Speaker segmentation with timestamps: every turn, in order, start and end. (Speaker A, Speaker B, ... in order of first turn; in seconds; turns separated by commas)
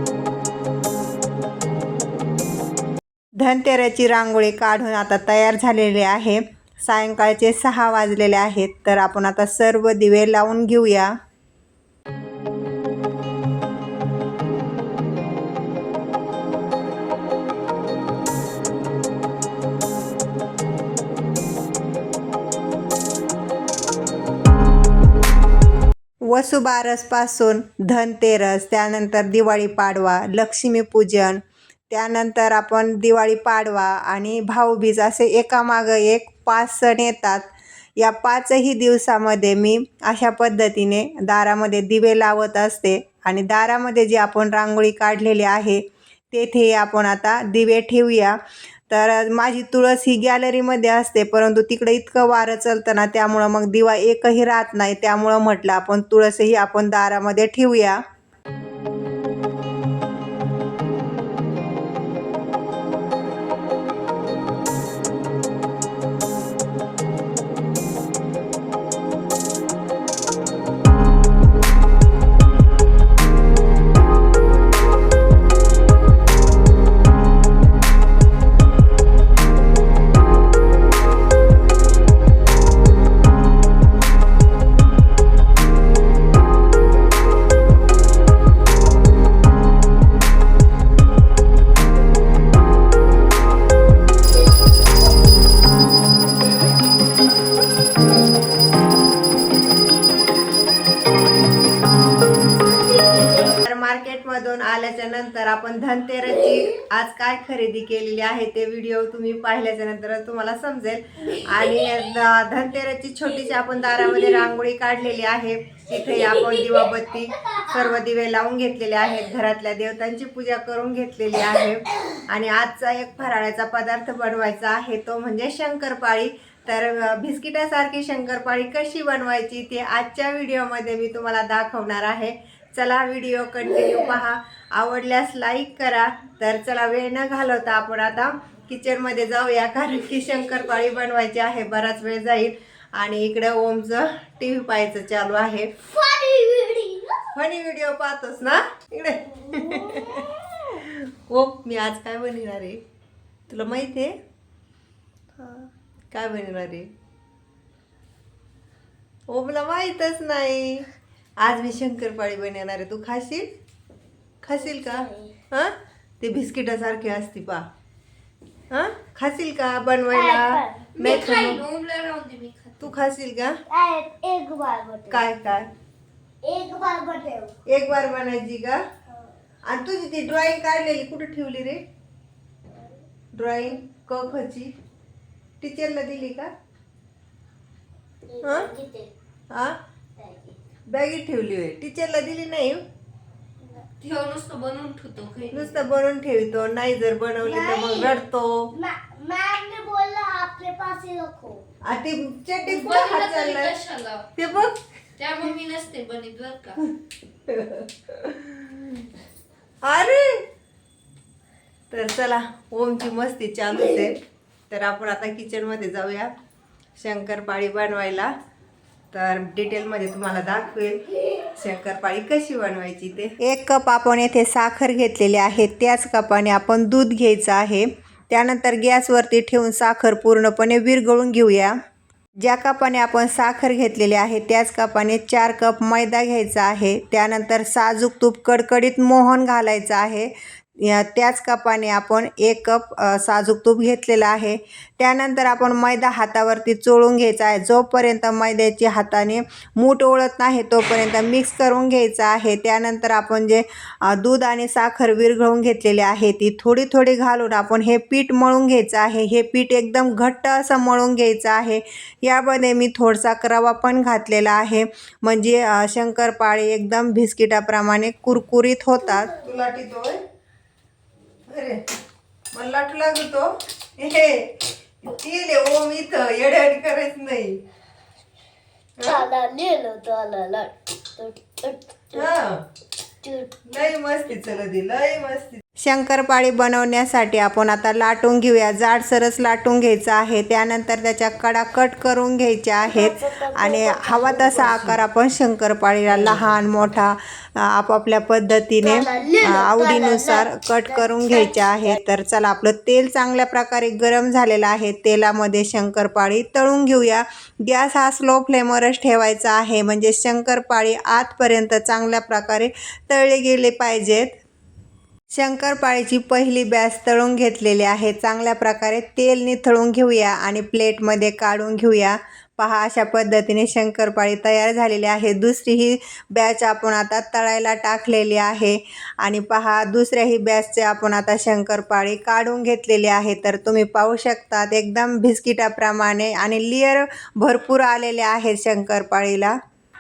Speaker A: 3.4-11.1, Speaker A: 26.3-37.5, Speaker A: 38.0-48.4, Speaker A: 48.9-58.0, Speaker A: 103.5-145.7, Speaker B: 145.9-147.3, Speaker A: 147.3-150.3, Speaker B: 149.4-150.8, Speaker A: 150.8-152.8, Speaker A: 153.5-154.2, Speaker A: 156.1-156.9, Speaker A: 159.3-160.9, Speaker A: 161.4-163.5, Speaker A: 164.4-167.7, Speaker B: 164.5-165.3, Speaker A: 168.7-171.6, Speaker B: 170.1-170.9, Speaker C: 171.0-172.8, Speaker A: 172.8-173.6, Speaker B: 173.7-175.2, Speaker A: 175.1-175.7, Speaker B: 176.4-177.6, Speaker A: 177.7-178.8, Speaker B: 179.1-179.3, Speaker A: 179.7-181.8, Speaker A: 183.3-184.7, Speaker A: 185.6-186.5, Speaker B: 188.3-189.1, Speaker A: 188.4-188.7, Speaker B: 190.2-190.6, Speaker A: 190.9-192.8, Speaker C: 194.0-195.8, Speaker A: 195.5-198.7, Speaker B: 197.4-198.2, Speaker B: 198.7-201.7, Speaker A: 201.8-203.8, Speaker C: 202.6-204.6, Speaker A: 204.4-204.8, Speaker C: 205.2-206.8, Speaker A: 207.5-208.9, Speaker A: 209.8-210.4, Speaker A: 211.9-216.3, Speaker A: 217.0-218.3, Speaker A: 219.1-231.8, Speaker A: 232.4-270.2, Speaker A: 271.5-271.8, Speaker A: 272.5-277.6, Speaker A: 279.0-279.3, Speaker B: 279.0-282.4, Speaker A: 282.1-282.6, Speaker B: 283.2-283.6, Speaker A: 283.6-314.4, Speaker B: 292.8-295.0, Speaker B: 298.8-302.0, Speaker A: 315.3-339.6